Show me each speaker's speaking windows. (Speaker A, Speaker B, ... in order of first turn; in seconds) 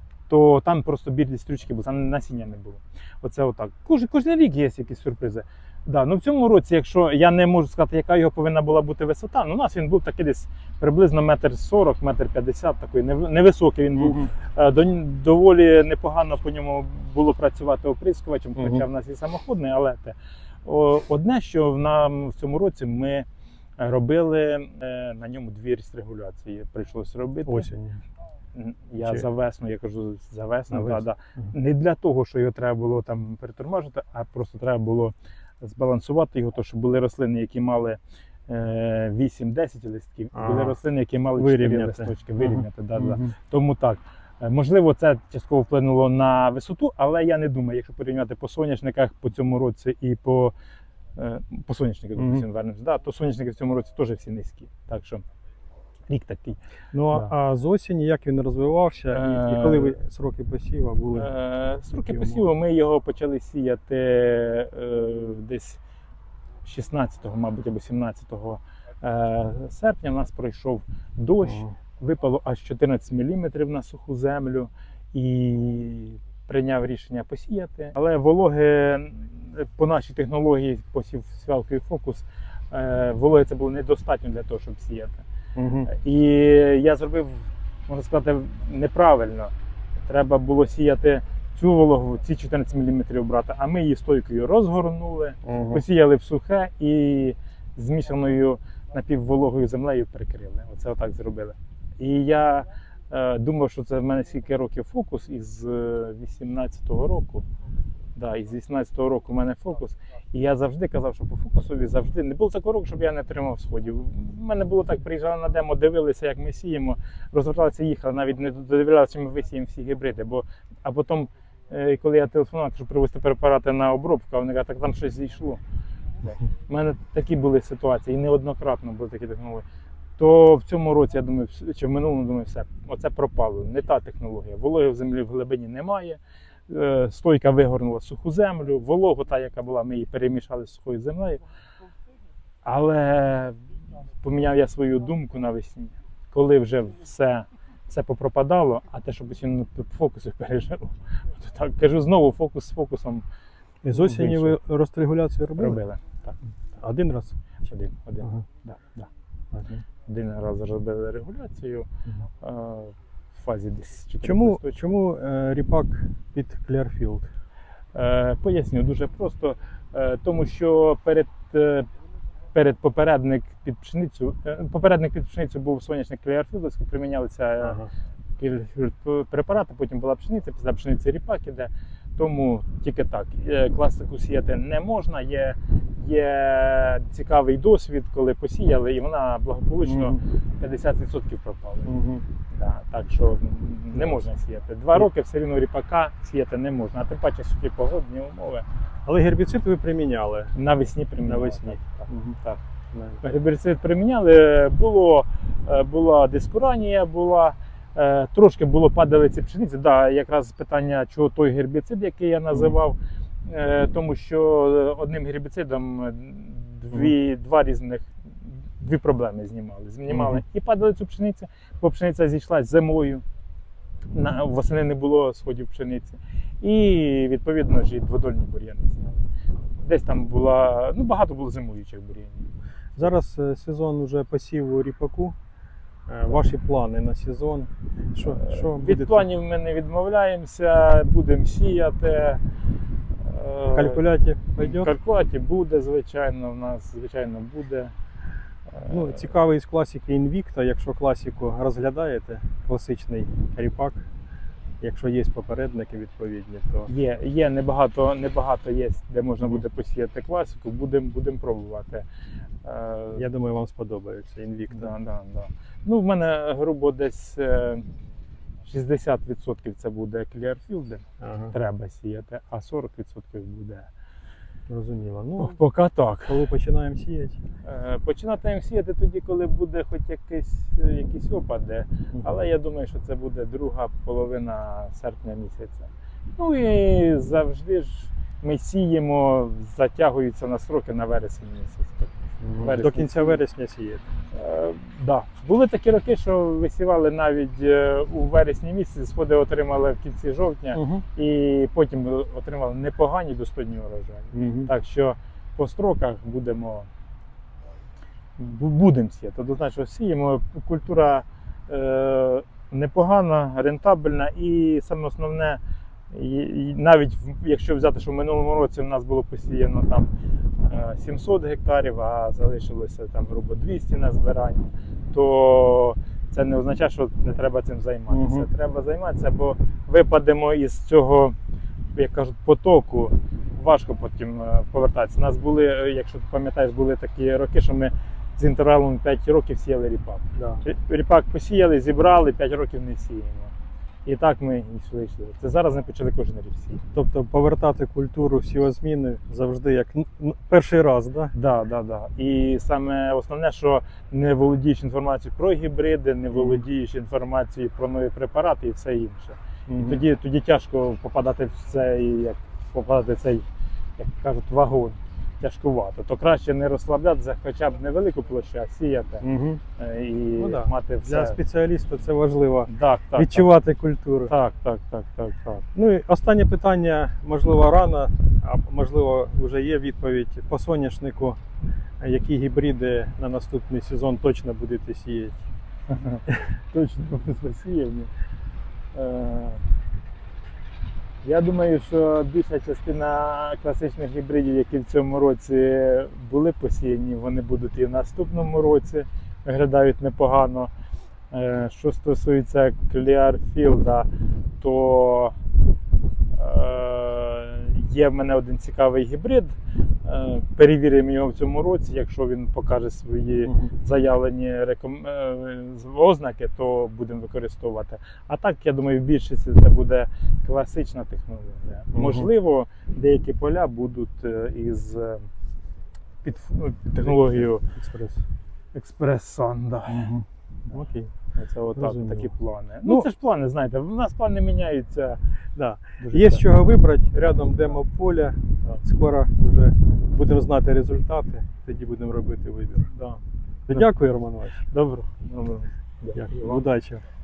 Speaker A: 0.3-23.3, 23.8-27.7, 28.5-50.5, 51.1-55.2, 56.1-56.6, 59.1-60.0, 61.1-65.8, 66.7-85.2, 85.9-107.5, 108.2-125.6, 126.2-129.7, 130.2-141.4, 142.6-153.2, 153.9-154.6, 155.6-156.4, 157.7-159.1, 160.1-161.9, 162.4-164.9, 167.9-171.9, 172.5-177.8, 178.4-192.0, 192.5-198.7, 200.6-202.6, 203.2-223.2, 224.1-229.3, 229.8-232.5, 238.2-242.4, 243.2-244.1, 244.6-247.9, 248.7-249.3, 256.9-262.1, 262.6-263.2, 264.7-267.9, 268.6-273.9, 275.4-276.5, 277.6-293.4, 294.3-306.9, 308.4-331.4, 331.9-343.5, 344.1-346.8, 351.3-363.5, 364.0-369.2, 369.8-371.4, 372.7-373.5, 374.3-375.7, 385.9-388.1, 388.9-389.7, 391.2-400.7, 401.3-404.1, 404.6-405.4, 406.3-425.3, 426.2-427.6, 428.7-430.1, 431.4-435.2, 436.0-436.5, 442.9-443.2, 444.7-446.6
Speaker B: 14.0-14.3, 18.6-18.9, 27.5-28.0, 30.7-31.5, 40.3-40.8, 41.4-43.3, 52.2-52.5, 56.9-61.3, 62.1-62.4, 71.5-71.8, 85.6-85.9, 95.5-95.8, 153.8-155.8, 156.8-157.4, 159.5-159.8, 164.2-167.3, 177.6-177.9, 189.8-190.2, 191.9-192.2, 199.1-200.6, 201.2-202.4, 202.9-203.2, 220.1-220.4, 233.0-235.4, 236.1-239.3, 243.7-244.9, 248.8-254.1, 254.8-256.9, 263.1-264.9, 271.2-271.6, 274.7-275.6, 276.3-277.4, 292.4-294.1, 300.7-301.1, 304.3-304.7, 328.1-328.5, 340.4-340.6, 346.9-351.3, 356.3-356.6, 359.7-360.0, 369.2-369.6, 370.4-374.3, 375.8-381.4, 382.0-385.5, 413.4-413.7, 421.9-422.3, 427.0-428.3, 429.9-431.1, 431.8-432.3, 435.6-442.9, 443.7-444.7, 446.1-447.0